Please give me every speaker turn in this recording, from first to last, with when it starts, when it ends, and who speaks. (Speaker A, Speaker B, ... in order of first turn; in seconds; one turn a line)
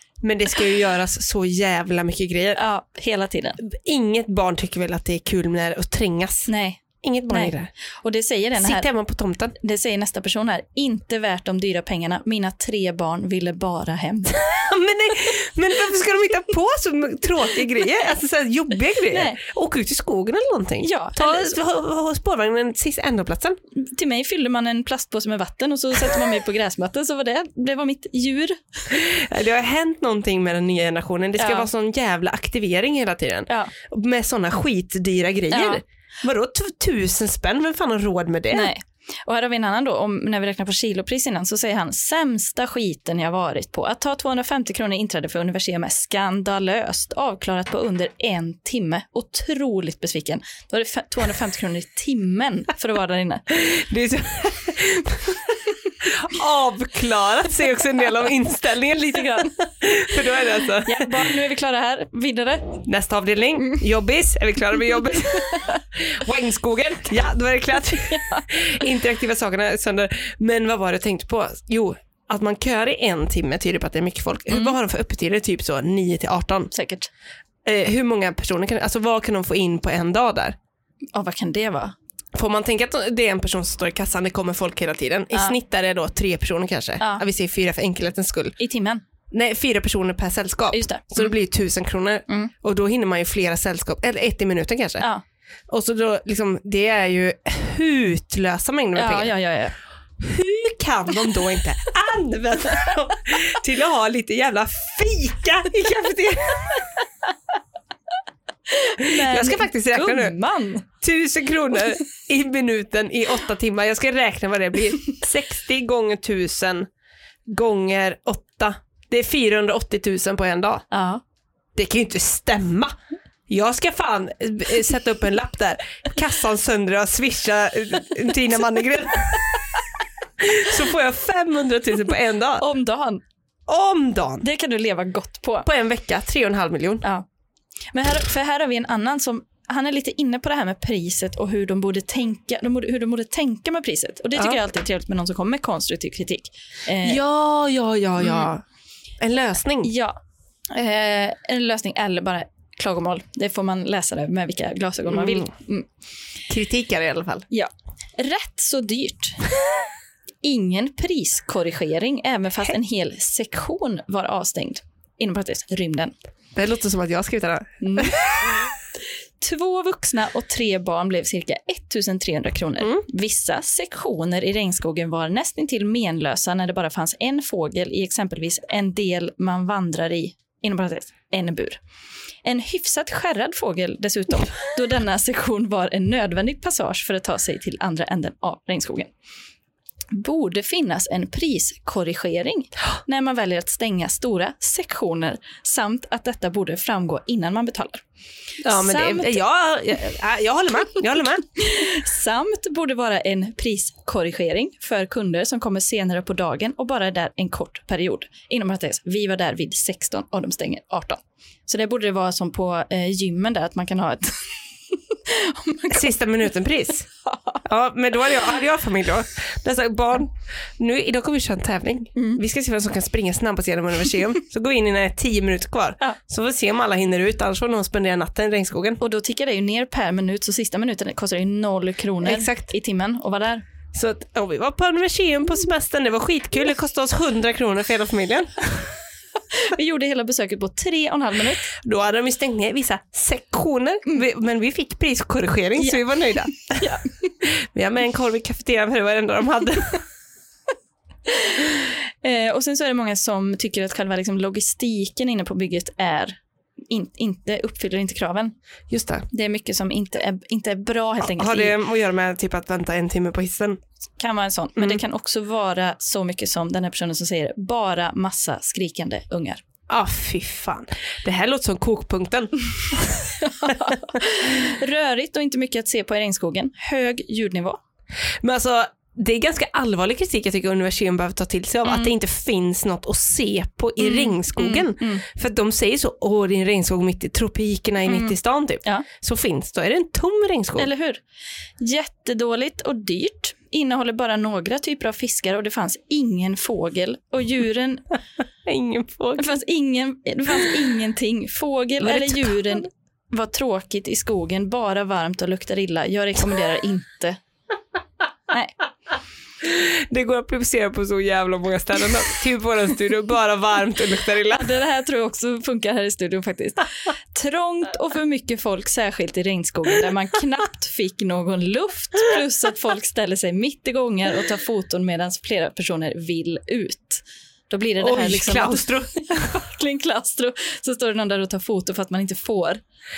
Speaker A: 0.2-2.6
Speaker B: 2.5-3.6
Speaker A: 3.6-6.5
Speaker B: 6.5-8.9
Speaker A: 7.0-7.7
Speaker A: 8.6-9.5
Speaker B: 9.6-14.5
Speaker A: 14.4-23.6
Speaker B: 19.1-19.4
Speaker B: 20.8-21.6
Speaker B: 23.8-28.9
Speaker A: 28.9-38.7
Speaker B: 31.4-31.7
Speaker B: 35.5-35.8
Speaker B: 38.5-53.5
Speaker A: 53.5-61.2
Speaker B: 58.9-59.6
Speaker B: 60.8-62.8
Speaker A: 62.8-76.7
Speaker B: 65.5-65.8
Speaker B: 68.0-68.5
Speaker B: 76.7-77.1
Speaker A: 77.6-80.6
Speaker B: 81.1-81.9
Speaker A: 82.3-88.5
Speaker B: 88.6-89.0
Speaker A: 89.3-95.0
Speaker B: 90.7-91.3
Speaker A: 95.7-99.3
Speaker B: 99.0-99.8
Speaker A: 100.2-107.0
Speaker B: 108.7-110.9
Speaker A: 109.0-110.3
Speaker A: 111.0-116.9
Speaker A: 117.5-120.8
Speaker B: 120.9-121.2
Speaker A: 121.8-122.9
Speaker A: 123.5-129.7
Speaker A: 130.4-132.6
Speaker B: 132.6-133.2
Speaker A: 133.7-134.4
Speaker B: 134.4-135.7
Speaker A: 135.6-137.0
Speaker B: 137.9-147.2
Speaker A: 147.0-148.6
Speaker B: 148.2-148.5
Speaker A: 149.2-149.9
Speaker B: 149.8-150.2
Speaker B: 150.7-155.9
Speaker A: 155.1-155.5
Speaker A: 156.5-157.4
Speaker B: 157.5-159.5
Speaker B: 160.4-166.1
Speaker A: 166.5-168.7
Speaker B: 167.8-168.5
Speaker B: 169.4-181.8
Speaker B: 182.4-189.1
Speaker B: 190.1-198.0
Speaker A: 198.6-201.4
Speaker B: 198.6-199.4
Speaker B: 201.6-216.1
Speaker A: 215.9-217.1
Speaker B: 217.2-217.6
Speaker A: 217.6-229.0
Speaker B: 229.0-233.6
Speaker A: 232.2-232.7
Speaker A: 233.9-238.9
Speaker B: 239.5-241.7
Speaker A: 241.7-246.9
Speaker B: 245.8-246.0
Speaker B: 246.5-247.3
Speaker A: 247.4-250.0
Speaker B: 251.3-256.4
Speaker B: 256.9-258.5
Speaker A: 258.9-259.3
Speaker B: 259.3-261.7
Speaker A: 261.2-263.8
Speaker B: 264.2-269.6
Speaker A: 269.9-274.0
Speaker B: 273.4-277.8
Speaker A: 278.4-290.9
Speaker B: 284.0-285.2
Speaker B: 288.1-289.1
Speaker B: 290.8-291.2
Speaker B: 291.8-298.1
Speaker A: 298.6-299.4
Speaker B: 299.4-307.4
Speaker A: 302.0-302.8
Speaker B: 308.5-308.8
Speaker A: 309.6-314.7
Speaker B: 314.5-332.8
Speaker A: 328.0-329.5